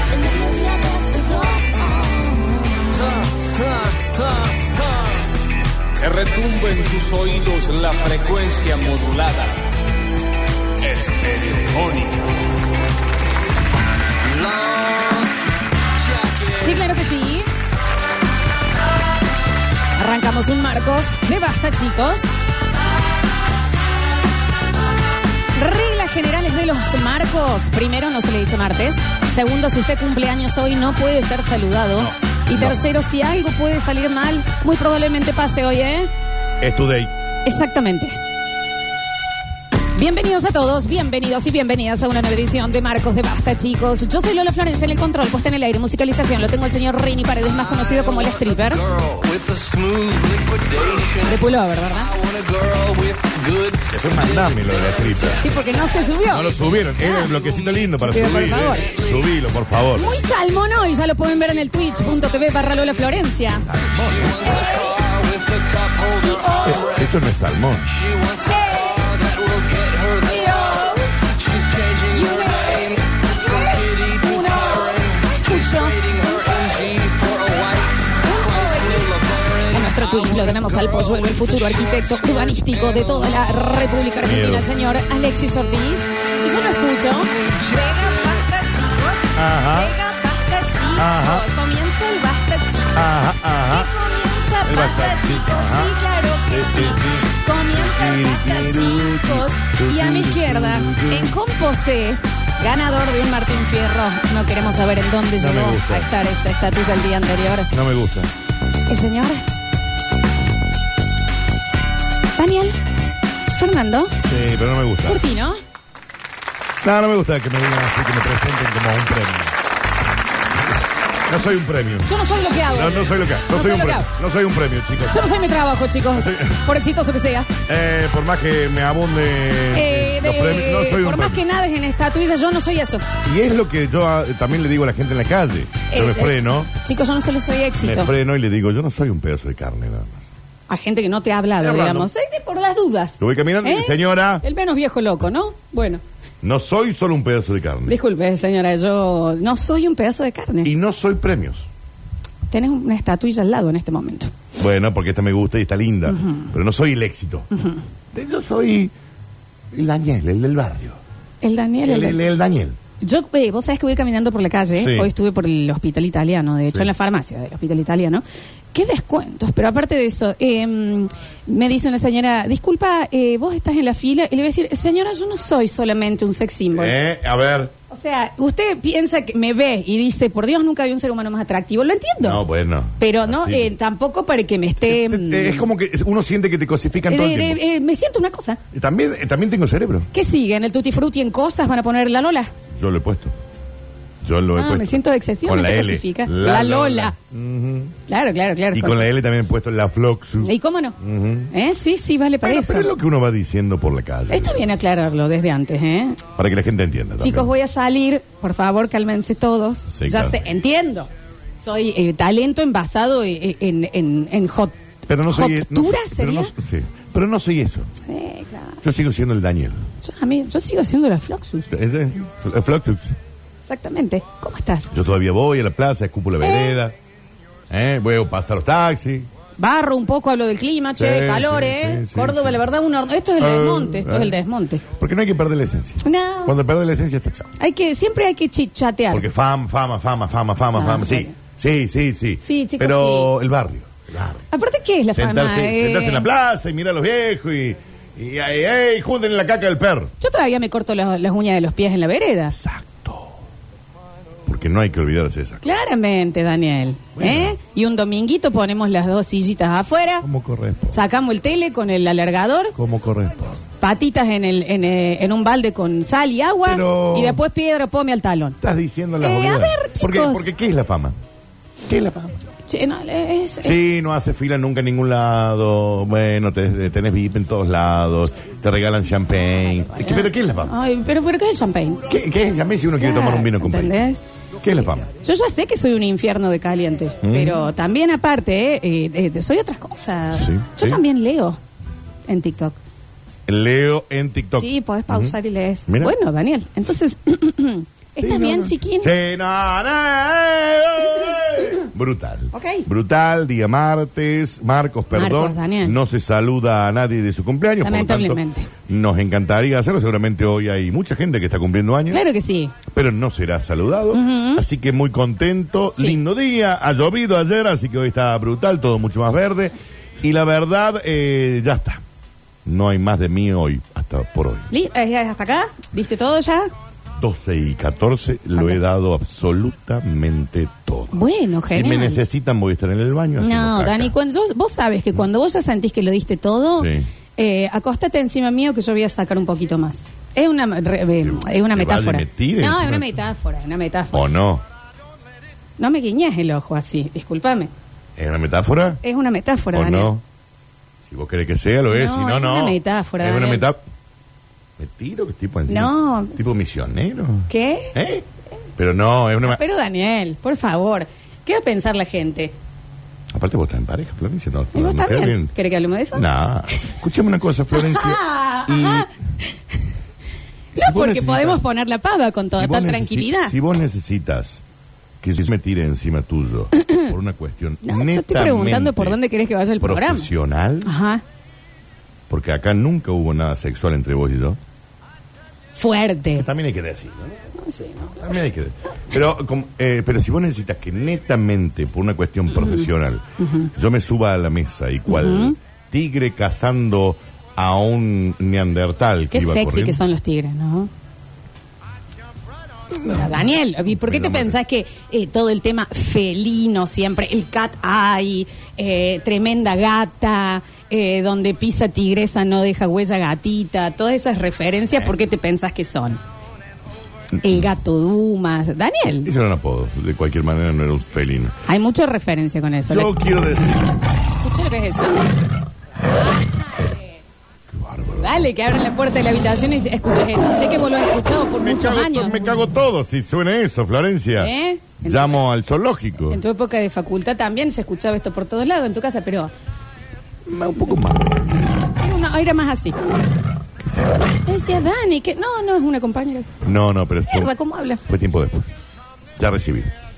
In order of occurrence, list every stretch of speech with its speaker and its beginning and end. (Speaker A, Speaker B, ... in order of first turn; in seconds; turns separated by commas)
Speaker A: 0.5-2.3, Speaker B: 2.9-5.1, Speaker B: 6.0-9.7, Speaker B: 10.8-12.3, Speaker B: 14.2-15.4, Speaker B: 15.9-16.8, Speaker A: 16.6-17.5, Speaker A: 19.9-22.4, Speaker A: 25.5-36.1, Speaker C: 31.9-32.8, Speaker C: 36.6-37.1, Speaker A: 37.4-38.2, Speaker A: 39.9-48.8, Speaker B: 47.8-55.5, Speaker A: 51.2-52.1, Speaker C: 53.9-55.4, Speaker A: 55.4-57.3, Speaker C: 56.3-60.1, Speaker B: 57.3-59.2, Speaker A: 58.0-58.9, Speaker A: 59.9-63.6, Speaker C: 63.6-64.5, Speaker B: 64.1-67.2, Speaker A: 64.5-65.0, Speaker A: 66.2-66.8, Speaker C: 66.7-68.0, Speaker B: 67.9-83.3, Speaker A: 68.4-69.1, Speaker A: 70.2-71.1, Speaker A: 72.1-76.0, Speaker A: 78.2-93.1, Speaker C: 84.2-84.7, Speaker B: 87.5-88.1, Speaker C: 89.3-90.0, Speaker C: 91.0-91.4, Speaker C: 92.9-93.9, Speaker A: 93.6-107.7, Speaker C: 94.6-96.0, Speaker C: 96.5-101.3, Speaker C: 105.3-106.1, Speaker C: 107.7-108.3, Speaker A: 108.9-109.4, Speaker A: 112.3-112.8, Speaker A: 113.5-114.2, Speaker C: 114.2-115.2, Speaker A: 115.0-115.6, Speaker C: 116.8-119.6, Speaker C: 121.2-125.2, Speaker A: 122.0-124.1, Speaker A: 125.1-127.5, Speaker C: 126.1-126.6, Speaker C: 127.6-131.4, Speaker A: 129.7-133.0, Speaker C: 133.2-136.7, Speaker A: 135.9-138.1, Speaker C: 137.8-140.2, Speaker A: 140.7-146.0, Speaker C: 141.6-142.1, Speaker C: 143.2-144.4, Speaker C: 146.4-148.0, Speaker A: 147.9-150.7, Speaker C: 150.6-151.7, Speaker A: 152.5-154.3, Speaker C: 154.6-157.5, Speaker A: 156.1-156.5, Speaker A: 157.5-157.8, Speaker C: 158.1-158.9, Speaker C: 159.7-161.0, Speaker A: 161.4-162.2, Speaker C: 161.8-162.8, Speaker A: 163.0-176.9, Speaker C: 164.8-165.1, Speaker C: 176.7-177.7, Speaker A: 177.9-182.4, Speaker C: 182.2-183.7, Speaker A: 183.0-185.7, Speaker C: 184.8-187.6, Speaker A: 187.1-188.6, Speaker C: 188.7-190.1, Speaker A: 190.1-192.5, Speaker C: 192.7-193.3, Speaker C: 194.2-197.9, Speaker A: 194.6-197.1, Speaker A: 198.1-199.1, Speaker C: 198.7-201.5, Speaker A: 200.4-201.0, Speaker A: 201.5-202.9, Speaker C: 202.4-204.6, Speaker A: 204.3-206.2, Speaker C: 206.3-207.5, Speaker A: 207.2-214.7, Speaker C: 209.9-210.4, Speaker C: 215.1-217.9, Speaker A: 215.3-216.5, Speaker A: 218.1-218.8, Speaker C: 218.8-219.8, Speaker A: 220.0-221.7, Speaker C: 221.7-223.1, Speaker A: 223.7-224.9, Speaker C: 224.9-226.9, Speaker A: 226.4-226.8, Speaker C: 227.7-229.3, Speaker A: 229.6-234.8, Speaker C: 231.0-232.6, Speaker C: 233.4-237.5, Speaker A: 236.0-236.6, Speaker A: 237.6-239.3, Speaker C: 239.1-244.4, Speaker A: 240.7-241.3, Speaker A: 242.4-243.3, Speaker A: 244.5-246.2, Speaker C: 245.1-250.1, Speaker A: 250.2-252.6, Speaker C: 252.5-253.4, Speaker C: 254.4-255.7, Speaker A: 255.6-260.2, Speaker C: 257.2-257.6, Speaker C: 260.2-261.0, Speaker A: 260.9-262.7, Speaker C: 262.8-263.6, Speaker A: 263.8-268.6, Speaker C: 266.6-267.4, Speaker C: 268.6-271.1, Speaker A: 269.2-270.5, Speaker C: 271.9-272.4, Speaker A: 272.7-273.8, Speaker C: 273.6-280.7, Speaker A: 280.0-282.1, Speaker C: 282.1-284.0, Speaker A: 283.0-284.2, Speaker C: 284.6-285.1, Speaker A: 285.1-291.6, Speaker C: 287.2-287.7, Speaker C: 290.3-291.0, Speaker A: 292.3-292.8, Speaker C: 293.5-295.4, Speaker A: 294.6-299.1, Speaker C: 295.9-296.1, Speaker C: 298.2-312.2, Speaker A: 302.5-302.9, Speaker A: 305.1-305.9, Speaker A: 307.8-308.7, Speaker A: 312.1-312.7, Speaker C: 312.9-322.0, Speaker A: 314.1-314.6, Speaker C: 322.6-324.7, Speaker A: 324.7-326.7, Speaker C: 327.2-334.1, Speaker A: 328.5-328.8, Speaker A: 331.1-332.2, Speaker A: 333.4-344.3, Speaker C: 336.8-337.1, Speaker C: 341.2-343.2, Speaker C: 344.1-344.6, Speaker A: 345.8-347.7, Speaker C: 348.2-349.0, Speaker A: 349.0-350.1, Speaker C: 349.7-350.2, Speaker C: 351.0-353.8, Speaker A: 351.9-353.6, Speaker C: 354.8-359.6, Speaker A: 355.7-356.4, Speaker A: 357.5-357.9, Speaker A: 359.4-362.5, Speaker C: 363.3-365.5, Speaker A: 364.7-366.9, Speaker C: 366.1-369.1, Speaker A: 367.7-369.8, Speaker C: 370.8-371.6, Speaker A: 370.8-373.5, Speaker C: 372.5-374.6, Speaker C: 375.2-379.2, Speaker A: 376.7-377.1, Speaker A: 377.8-380.3, Speaker C: 379.8-380.9, Speaker A: 380.8-381.2, Speaker C: 382.3-384.6, Speaker A: 385.7-386.5, Speaker C: 386.4-387.4, Speaker A: 387.5-388.2, Speaker C: 388.1-400.0, Speaker A: 393.4-393.7, Speaker A: 395.1-395.6, Speaker A: 399.3-400.9, Speaker C: 402.9-404.6, Speaker A: 403.0-416.2, Speaker A: 417.4-419.3, Speaker C: 419.2-421.5, Speaker A: 421.6-423.1, Speaker C: 422.9-423.9, Speaker A: 424.4-425.2, Speaker A: 426.1-427.0, Speaker C: 427.7-428.4, Speaker A: 428.2-432.6, Speaker C: 431.6-436.4, Speaker A: 434.4-435.4, Speaker A: 436.2-439.5, Speaker C: 440.4-441.4, Speaker A: 442.0-443.0, Speaker C: 443.8-444.4, Speaker A: 444.4-446.5, Speaker C: 446.6-447.5, Speaker A: 447.3-448.0, Speaker C: 448.0-448.7, Speaker C: 449.4-449.9